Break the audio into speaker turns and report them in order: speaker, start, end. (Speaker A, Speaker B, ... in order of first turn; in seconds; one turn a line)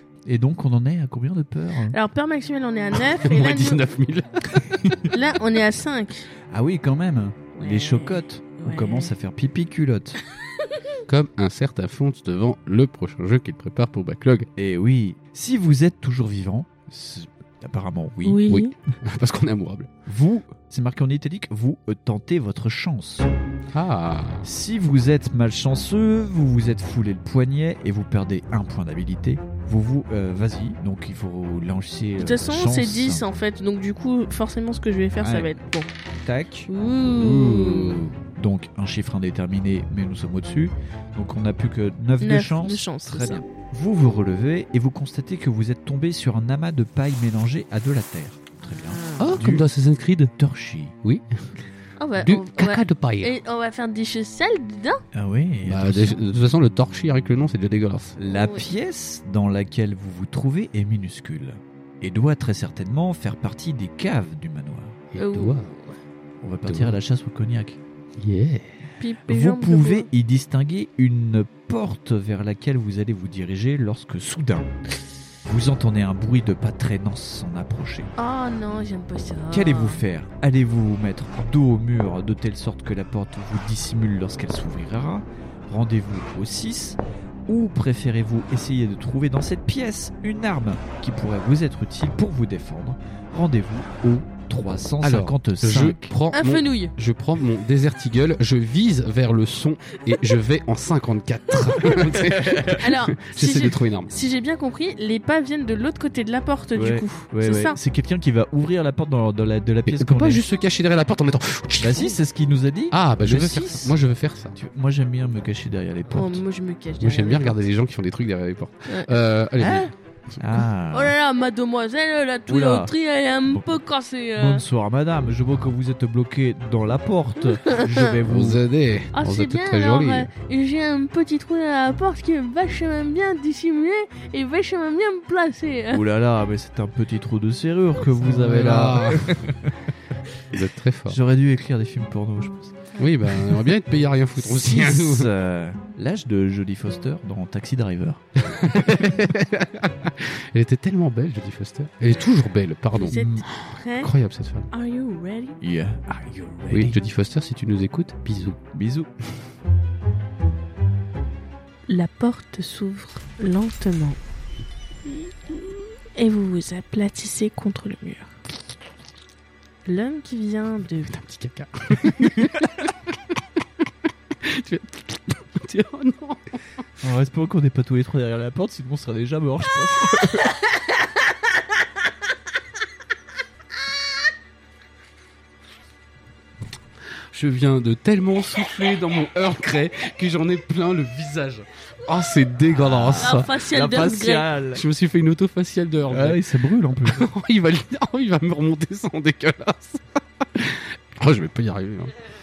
Speaker A: 0.2-2.0
Speaker B: 1.9-3.8
Speaker C: 3.0-5.1
Speaker B: 5.1-6.3
Speaker A: 6.5-10.2
Speaker B: 7.5-9.1
Speaker C: 11.1-14.5
Speaker A: 14.6-18.5
Speaker B: 18.2-18.7
Speaker C: 18.4-19.9
Speaker A: 20.1-23.3
Speaker C: 23.7-24.5
Speaker A: 24.4-33.2
Speaker B: 32.2-35.9
Speaker A: 35.2-35.6
Speaker A: 36.2-49.6
Speaker B: 36.7-38.0
Speaker B: 42.2-43.4
Speaker B: 48.8-49.4
Speaker C: 49.2-50.3
Speaker A: 50.4-50.9
Speaker B: 52.0-55.0
Speaker C: 52.2-53.3
Speaker A: 55.1-56.2
Speaker C: 55.6-58.2
Speaker A: 58.2-65.0
Speaker B: 58.3-58.6
Speaker C: 65.1-65.7
Speaker B: 65.2-66.0
Speaker A: 66.4-67.8
Speaker C: 66.6-67.0
Speaker C: 68.2-68.8
Speaker B: 69.0-70.1
Speaker A: 69.3-74.7
Speaker A: 75.4-78.1
Speaker B: 78.2-80.0
Speaker A: 79.5-96.1
Speaker C: 95.0-104.1
Speaker B: 96.3-96.9
Speaker A: 102.1-102.8
Speaker B: 102.7-107.8
Speaker A: 106.7-110.4
Speaker C: 109.8-112.2
Speaker A: 111.8-114.0
Speaker C: 112.9-114.5
Speaker A: 114.5-116.4
Speaker B: 116.1-117.5
Speaker C: 117.0-120.6
Speaker A: 119.6-121.1
Speaker B: 120.9-124.6
Speaker A: 122.5-122.9
Speaker A: 124.3-128.6
Speaker C: 128.2-130.3
Speaker B: 129.1-136.0
Speaker A: 135.9-139.7
Speaker C: 138.2-139.5
Speaker C: 140.5-141.2
Speaker A: 141.1-143.6
Speaker C: 142.9-145.3
Speaker A: 144.4-148.2
Speaker C: 148.4-153.3
Speaker B: 152.9-154.1
Speaker A: 153.1-153.4
Speaker C: 154.0-154.7
Speaker B: 154.7-155.6
Speaker A: 155.6-157.0
Speaker C: 156.7-158.6
Speaker A: 158.7-159.1
Speaker B: 161.9-164.2
Speaker B: 166.2-168.3
Speaker B: 169.8-171.1
Speaker C: 171.1-173.2
Speaker C: 174.4-176.6
Speaker A: 177.0-180.4
Speaker C: 187.3-193.5
Speaker A: 192.7-194.8
Speaker B: 193.2-194.5
Speaker C: 194.7-196.4
Speaker A: 196.1-197.2
Speaker C: 197.0-202.1